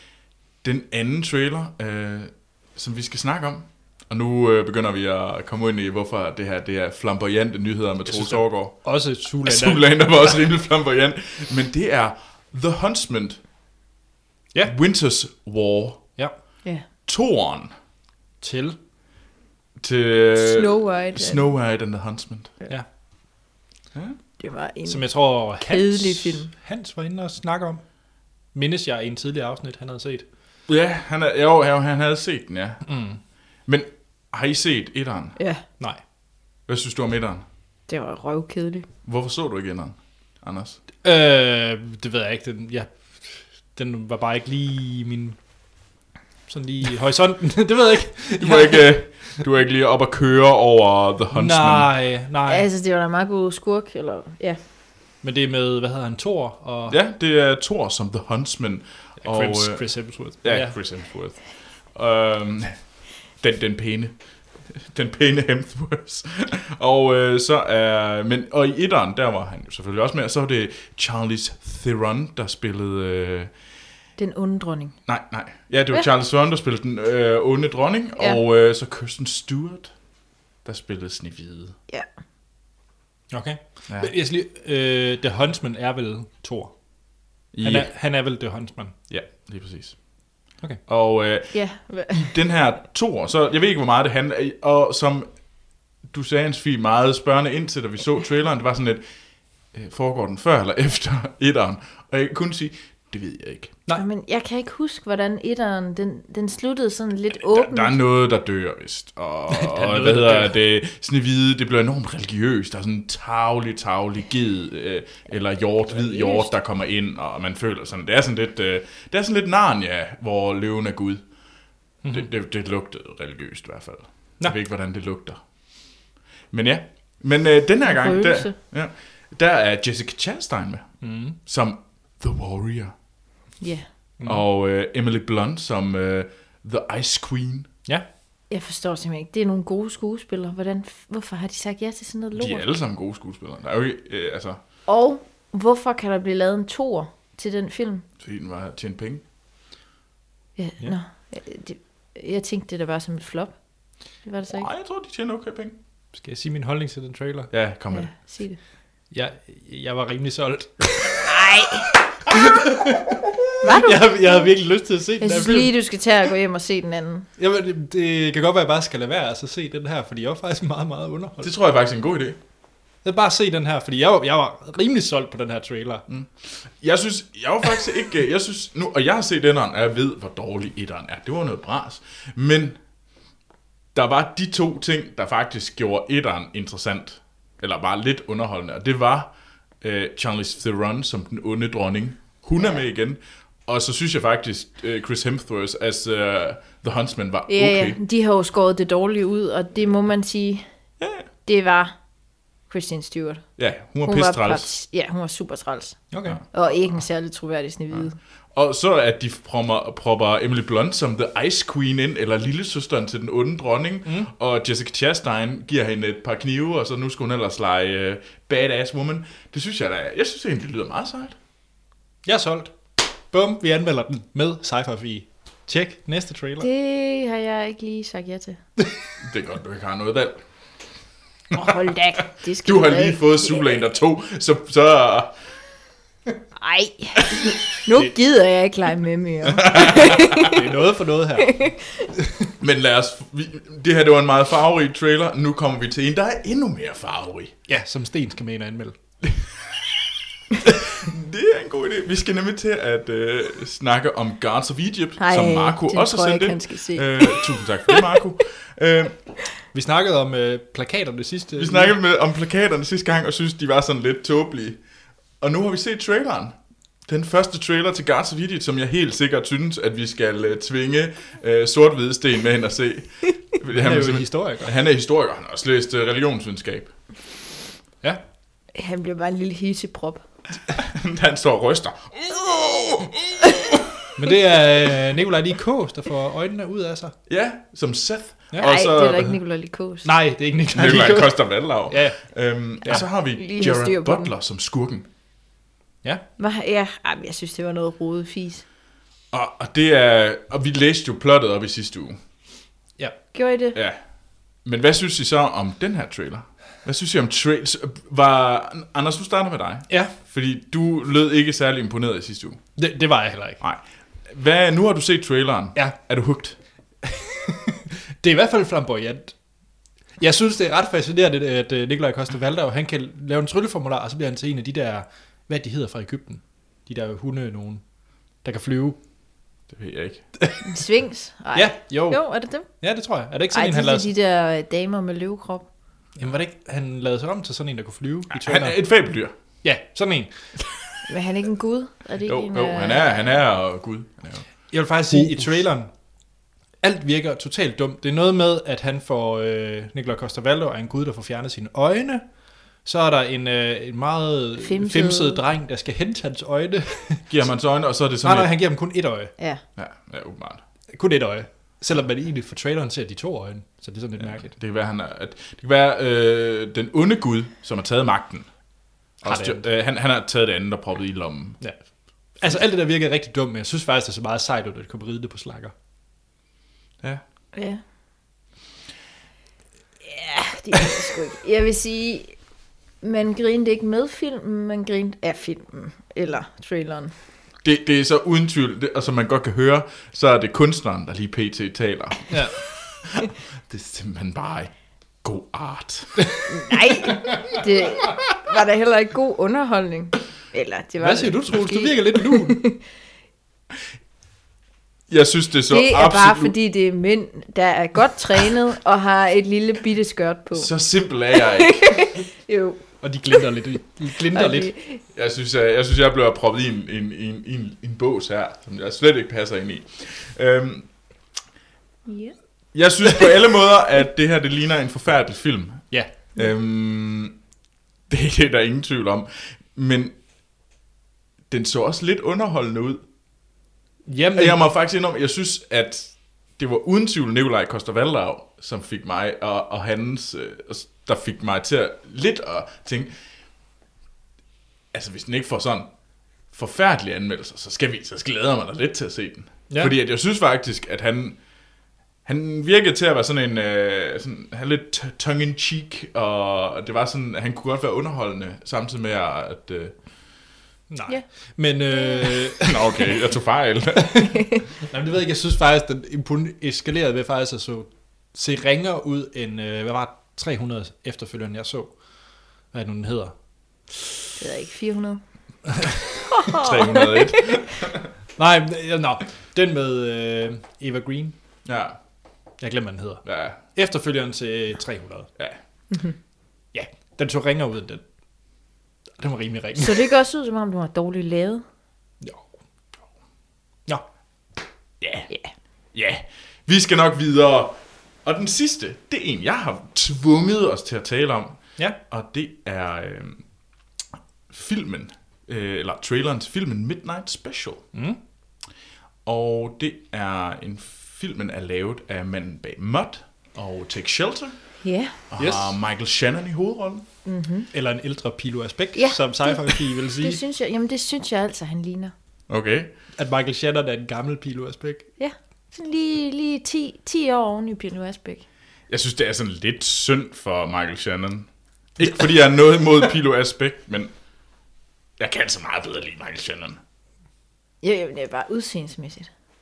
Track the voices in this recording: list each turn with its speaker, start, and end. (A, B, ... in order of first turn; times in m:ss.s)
0:00.6-0:13.4 A
0:08.0-0:10.1 B
0:14.6-0:16.2 A
0:17.0-0:17.7 A
0:18.4-0:18.8 B
0:19.8-0:22.5 A
0:20.4-0:21.5 C
0:24.4-0:26.5 C
0:24.8-0:27.8 B
0:28.5-0:30.2 B
0:30.7-0:32.8 A
0:32.8-0:33.2 B
0:33.6-0:35.4 A
0:35.4-0:35.6 C
0:36.7-0:37.4 A
0:37.9-0:38.9 C
0:39.0-0:40.8 A
0:41.0-0:45.4 B
0:46.5-0:49.0 B
0:48.4-0:51.9 A
0:51.3-0:52.6 B
0:52.5-0:54.6 C
0:55.2-0:57.0 B
0:56.9-1:13.5 A
0:59.2-1:00.8 B
1:14.2-1:15.0 C
1:15.0-1:19.9 A
1:20.6-1:21.7 A
1:23.3-1:26.8 B
1:27.5-1:27.9 A
1:27.6-1:29.0 B
1:29.1-1:30.3 A
1:30.8-1:39.0 A
1:31.5-1:32.3 C
1:39.6-1:43.8 A
1:43.9-1:48.0 C
1:47.3-2:01.2 A
1:49.5-1:50.6 B
1:55.9-1:56.5 C
2:02.0-2:02.3 B
2:02.1-2:05.4 A
2:06.5-2:12.9 A
2:07.8-2:08.5 C
2:11.0-2:11.4 B
2:13.6-2:13.9 C
2:14.2-2:14.4 B
2:14.2-2:17.7 A
2:18.5-2:22.6 C
2:22.3-2:24.6 A
2:24.9-2:28.0 C
2:28.2-2:29.2 A
2:30.6-2:33.6 C
2:34.2-2:34.7 C
2:34.5-2:35.8 A
2:36.1-2:37.5 B
2:37.5-2:38.1 A
2:37.9-2:38.6 C
2:39.1-2:41.3 B
2:41.2-2:41.9 C
2:42.3-2:45.7 B
2:43.6-2:44.5 C
2:45.2-2:47.3 C
2:47.4-2:51.5 B
2:51.4-2:52.4 A
2:53.0-2:56.0 B
2:56.1-3:02.8 A
3:03.9-3:18.0 A
3:17.5-3:20.6 C
3:21.0-3:21.3 A
3:21.4-3:22.0 C
3:22.7-3:28.2 C
3:23.6-3:24.7 A
3:26.1-3:26.4 B
3:27.9-3:41.4 A
3:34.0-3:34.3 B
3:42.2-3:46.7 B
3:46.6-3:48.6 C
3:49.2-3:50.4 A
3:51.5-3:53.7 C
3:52.6-3:55.4 A
3:56.6-4:00.6 C
3:59.5-4:00.5 A
4:00.2-4:01.6 B
4:01.4-4:02.1 C
4:02.6-4:07.5 A
4:07.7-4:09.0 B
4:09.3-4:09.7 A
4:10.6-4:19.2 A
4:15.2-4:18.0 C
4:19.7-4:22.0 B
4:21.6-4:24.8 A
4:25.4-4:36.9 A
4:33.7-4:34.7 B
4:38.7-4:40.2 C
4:40.8-4:43.9 A
4:44.2-4:47.1 B
4:47.3-4:49.4 A
4:48.6-4:50.1 C
4:50.0-4:52.2 B
4:50.7-4:55.1 A
4:53.2-4:54.3 C
4:56.4-4:58.6 C
4:59.3-5:02.2 A
5:03.3-5:03.8 C
5:03.7-5:04.0 A
5:04.6-5:12.6 A
5:09.9-5:10.1 B
5:12.8-5:13.6 B
5:13.6-5:16.6 A
5:17.0-5:19.4 B
5:20.2-5:27.8 B
5:28.4-5:29.0 B
5:29.7-5:30.3 A
5:30.6-5:32.7 C
5:31.5-5:34.1 B
5:33.5-5:35.7 C
5:36.2-5:38.9 B
5:38.3-5:39.3 A
5:39.6-5:40.5 B
5:41.0-5:43.3 C
5:42.2-5:44.5 A
5:44.7-5:45.9 B
5:46.8-5:52.3 B
5:52.8-5:57.3 B
5:54.6-5:55.4 C
5:57.3-5:58.5 A
5:58.2-5:59.3 B
5:59.4-5:59.6 C
5:59.8-6:00.6 A
6:00.9-6:04.6 B
6:04.2-6:08.5 A
6:09.2-6:11.6 A
6:09.2-6:09.6 B
6:11.6-6:15.7 B
6:17.5-6:17.8 C
6:20.0-6:22.4 C
6:23.0-6:27.1 C
6:27.6-6:34.7 A
6:32.3-6:32.6 B
6:35.2-6:36.2 A
6:36.5-6:42.8 C
6:41.0-6:42.6 B
6:45.1-6:46.5 A
6:45.7-6:50.7 C
6:50.5-6:52.2 A
6:51.3-6:52.8 C
6:53.0-6:54.7 B
6:54.3-6:55.0 C
6:55.1-7:00.9 A
7:02.1-7:02.4 C
7:02.7-7:07.4 A
7:08.1-7:10.2 A
7:11.5-7:13.0 A
7:14.1-7:14.6 B
7:14.3-7:23.1 A
7:24.9-7:25.9 A
7:26.5-7:31.4 A
7:29.7-7:30.0 B
7:32.2-7:40.0 A
7:40.9-7:43.1 B
7:42.6-7:44.2 A
7:44.0-7:51.9 B
7:52.7-7:53.3 B
7:54.4-7:55.2 C
7:56.3-7:57.6 C
7:56.5-7:58.1 A
7:58.4-8:01.3 B
8:01.6-8:02.0 A
8:02.6-8:05.3 B
8:03.2-8:03.6 A
8:06.7-8:08.0 B
8:09.2-8:10.1 B
8:09.8-8:11.6 C
8:12.2-8:12.5 B
8:15.0-8:15.3 A
8:15.9-8:23.4 A
8:24.5-8:27.9 A
8:27.9-8:28.2 B
8:29.2-8:34.6 A
8:34.8-8:35.2 C
8:35.3-8:37.0 A
8:35.4-8:35.8 B
8:37.2-8:37.7 C
8:37.7-8:40.4 B
8:39.0-8:42.1 C
8:42.5-8:42.9 A
8:43.2-8:45.1 B
8:45.2-8:48.4 C
8:48.9-8:54.1 A
8:55.2-8:56.8 A
8:57.8-8:59.3 C